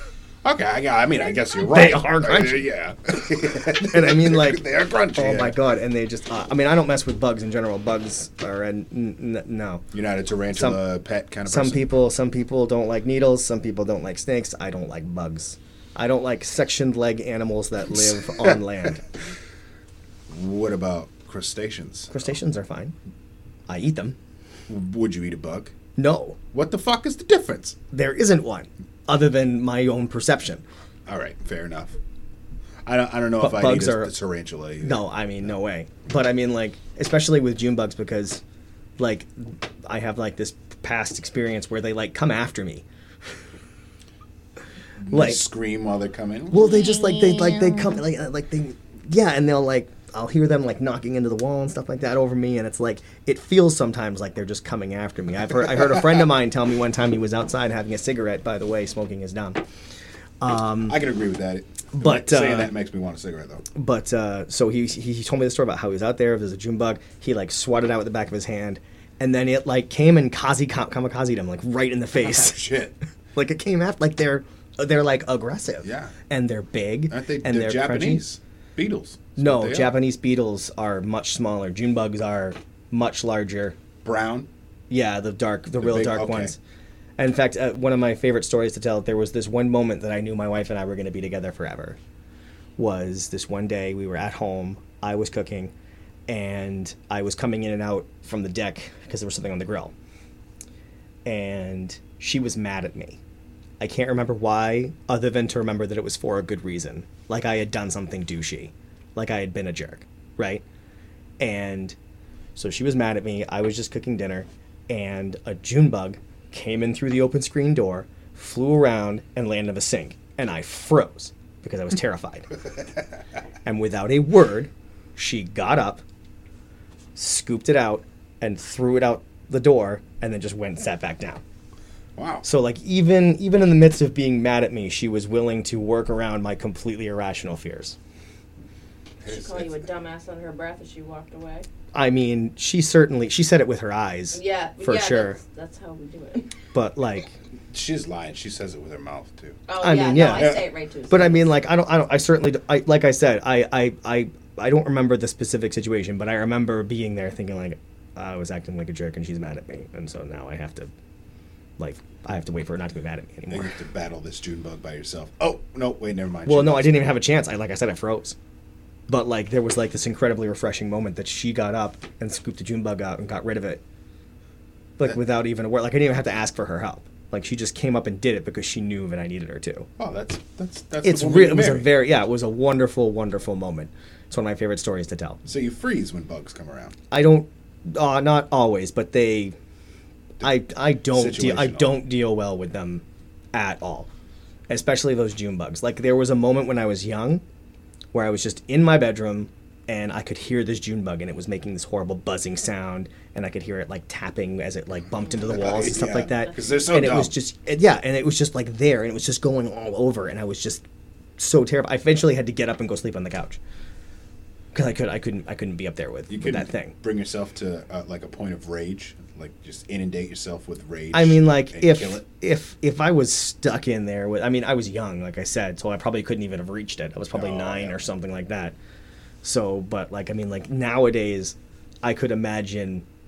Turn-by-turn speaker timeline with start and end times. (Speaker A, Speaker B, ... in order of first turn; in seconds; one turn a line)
Speaker A: 0.4-5.6
Speaker B: 1.6-2.7
Speaker B: 3.5-9.8
Speaker A: 9.9-11.8
Speaker B: 10.5-10.8
Speaker B: 11.4-19.0
Speaker A: 17.9-18.6
Speaker A: 20.3-22.3
Speaker B: 22.1-22.9
Speaker B: 23.7-24.1
Speaker A: 24.7-25.7
Speaker B: 26.0-26.4
Speaker A: 26.5-27.8
Speaker B: 27.9-30.6
Speaker A: 31.1-32.0
Speaker A: 32.8-35.0
Speaker B: 33.4-34.1
Speaker B: 34.8-38.4
Speaker B: 39.0-42.8
Speaker A: 45.0-46.8
Speaker B: 45.1-45.4
Speaker C: 46.5-48.0
Speaker B: 46.5-59.6
Speaker B: 60.4-61.0
Speaker A: 60.9-63.6
Speaker B: 61.9-62.7
Speaker B: 63.7-72.7
Speaker A: 72.2-72.9
Speaker B: 73.3-78.2
Speaker A: 75.8-76.1
Speaker A: 77.1-79.9
Speaker B: 79.4-83.8
Speaker A: 84.0-84.5
Speaker B: 84.9-86.6
Speaker A: 85.8-86.5
Speaker B: 87.2-92.0
Speaker B: 92.8-95.7
Speaker B: 96.3-99.9
Speaker B: 101.2-103.2
Speaker B: 103.8-110.6
Speaker B: 111.4-112.0
Speaker B: 112.5-122.5
Speaker B: 123.6-126.0
Speaker B: 127.2-131.4
Speaker A: 132.2-132.4
Speaker B: 132.4-137.9
Speaker A: 139.2-139.8
Speaker C: 139.2-141.7
Speaker B: 141.9-145.4
Speaker C: 144.3-146.5
Speaker B: 146.7-147.3
Speaker A: 147.7-149.6
Speaker C: 149.7-151.5
Speaker B: 149.8-160.9
Speaker A: 150.3-150.7
Speaker B: 161.8-163.7
Speaker A: 163.5-167.0
Speaker B: 166.4-168.3
Speaker B: 169.1-173.8
Speaker B: 175.0-179.9
Speaker A: 180.0-181.9
Speaker B: 181.0-185.4
Speaker A: 185.4-186.9
Speaker B: 187.1-189.5
Speaker B: 190.4-194.1
Speaker A: 191.1-192.0
Speaker B: 194.7-197.4
Speaker B: 198.1-210.8
Speaker A: 205.5-207.3
Speaker B: 211.4-213.6
Speaker B: 214.7-216.9
Speaker A: 216.3-222.2
Speaker B: 221.1-228.7
Speaker A: 227.3-228.0
Speaker B: 229.4-233.0